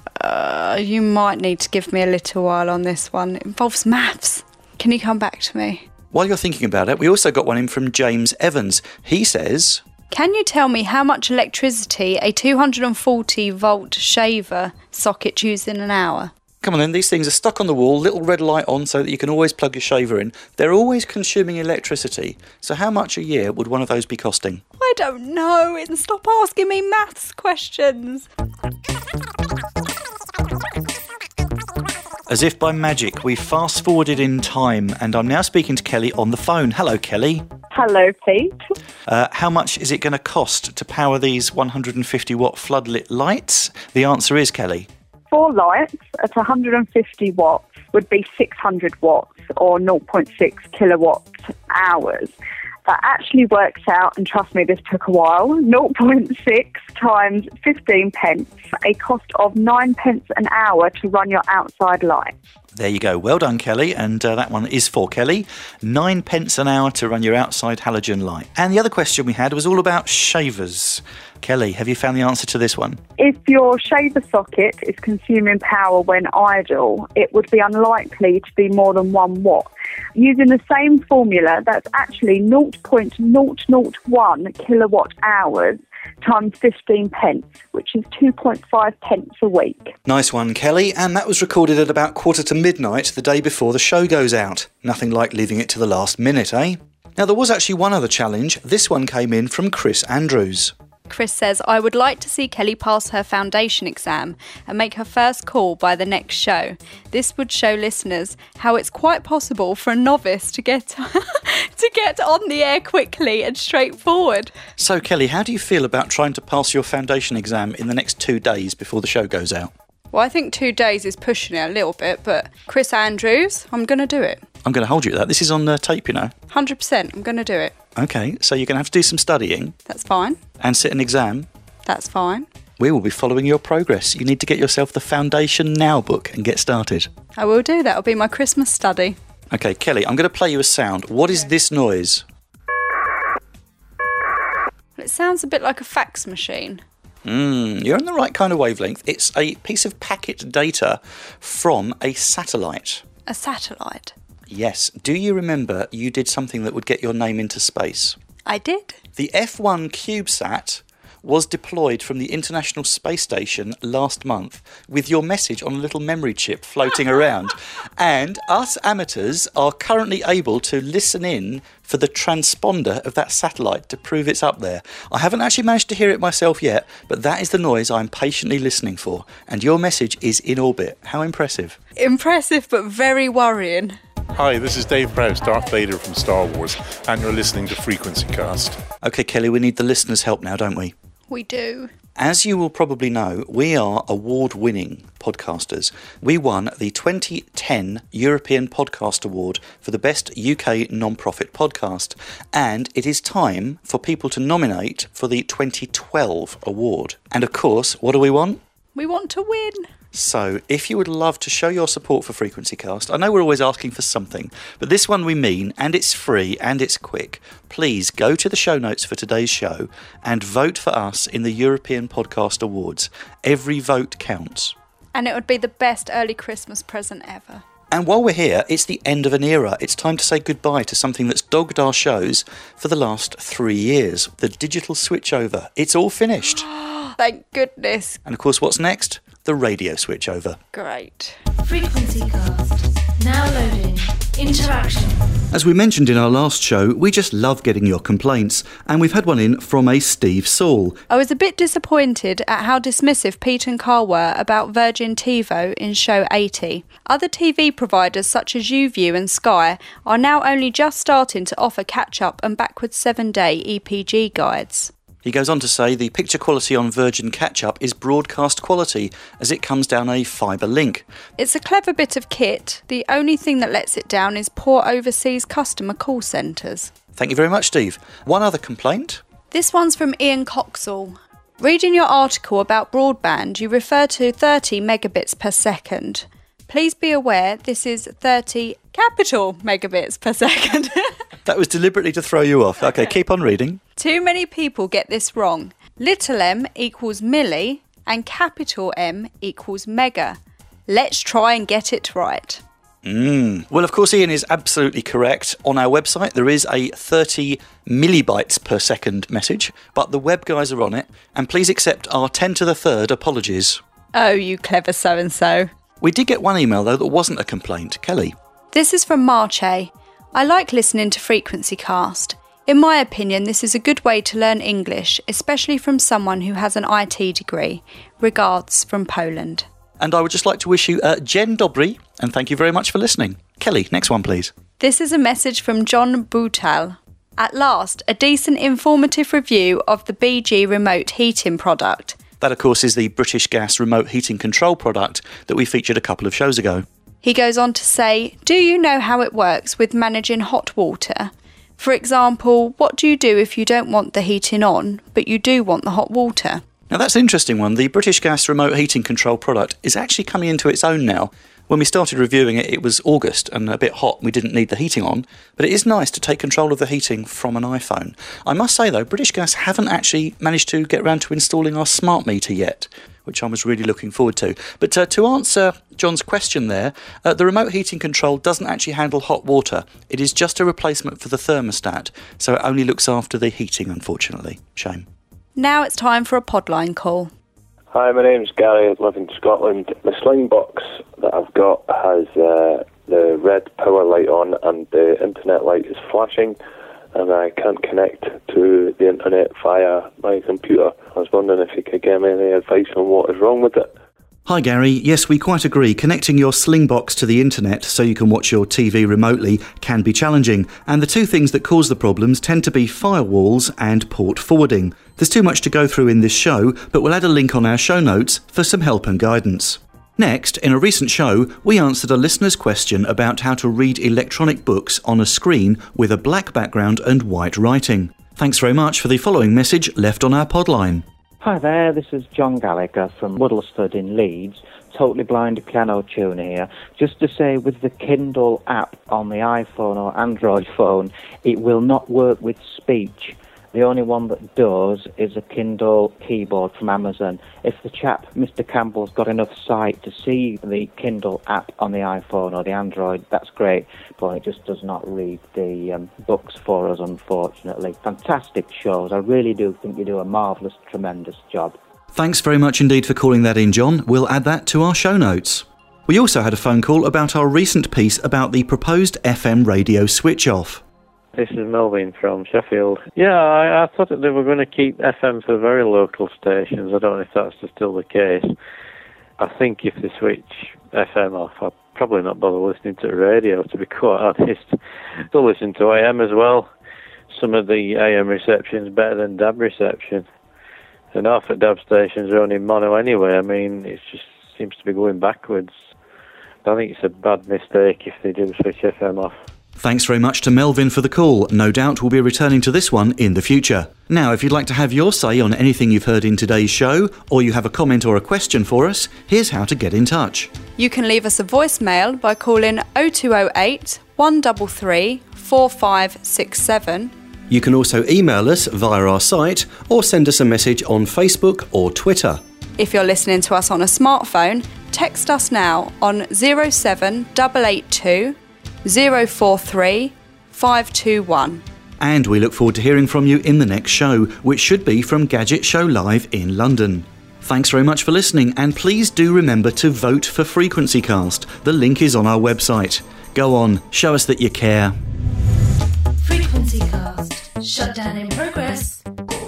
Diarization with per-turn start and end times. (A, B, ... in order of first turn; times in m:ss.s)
0:00.2-0:05.8 A
0:06.1-0:09.8 B
0:10.1-0:16.3 A
0:16.6-0:24.6 B
0:24.8-0:28.3 A
0:32.3-0:37.4 B
0:37.7-0:38.5 C
0:39.0-0:44.9 B
0:45.3-0:52.3 C
0:52.8-1:02.3 C
1:02.7-1:13.0 B
1:13.2-1:29.9 C
1:30.0-1:40.7 B
1:41.1-1:54.5 A
1:54.8-1:59.7 B
2:00.1-2:04.4 A
2:04.6-2:06.3 B
2:06.5-2:07.7 A
2:08.0-2:09.8 B
2:09.9-2:10.4 A
2:10.6-2:11.5 B
2:11.8-2:12.4 A
2:12.8-2:17.1 B
2:17.4-2:19.2 A
2:19.5-2:22.2 B
2:25.0-2:26.8 A
2:27.2-2:33.0 B
2:33.2-2:34.1 A
2:34.5-2:38.2 B
2:38.4-2:39.0 A
2:39.2-3:01.8 B
3:02.0-3:04.0 A
3:04.4-3:08.8 D
3:09.0-3:10.9 B
3:11.3-3:11.9 A
3:12.2-3:28.6 B
3:28.9-3:29.9 A
3:30.1-3:44.7 B
3:45.1-3:47.6 A
3:47.9-3:56.6 B
3:56.4-3:58.2 A
3:58.2-4:00.6 B
4:00.7-4:01.4 A
4:01.5-4:05.4 E
4:05.5-4:11.0 B
4:11.1-4:24.9 A
4:25.2-4:31.0 B
4:31.4-4:36.9 A
4:37.2-4:39.2 B
4:39.5-4:51.1 A
4:51.4-4:53.8 B
4:54.0-5:02.6 A
5:03.0-5:13.8 B
5:14.1-5:15.7 A
5:16.0-5:18.3 B
5:18.7-5:29.6 A
5:30.0-5:34.5 B
5:34.8-5:42.2 A
5:42.4-5:46.8 B
5:47.2-5:56.6 A
5:56.9-6:25.0 B
6:25.6-6:27.3 A
6:27.9-6:36.6 F
6:37.1-6:43.9 F
6:44.4-7:11.0 B
7:11.4-7:41.8 G
7:42.1-7:50.8 B
7:51.3-7:58.5 H
7:59.4-8:04.8 H
8:05.3-8:06.7 H
8:07.3-8:10.2 H
8:11.1-8:15.7 H
8:16.6-8:19.4 H
8:19.8-8:30.5 B
8:30.8-8:37.1 A
8:37.5-8:42.4 B
8:42.8-8:51.6 A
8:52.0-9:05.0 B
9:06.2-9:09.0 E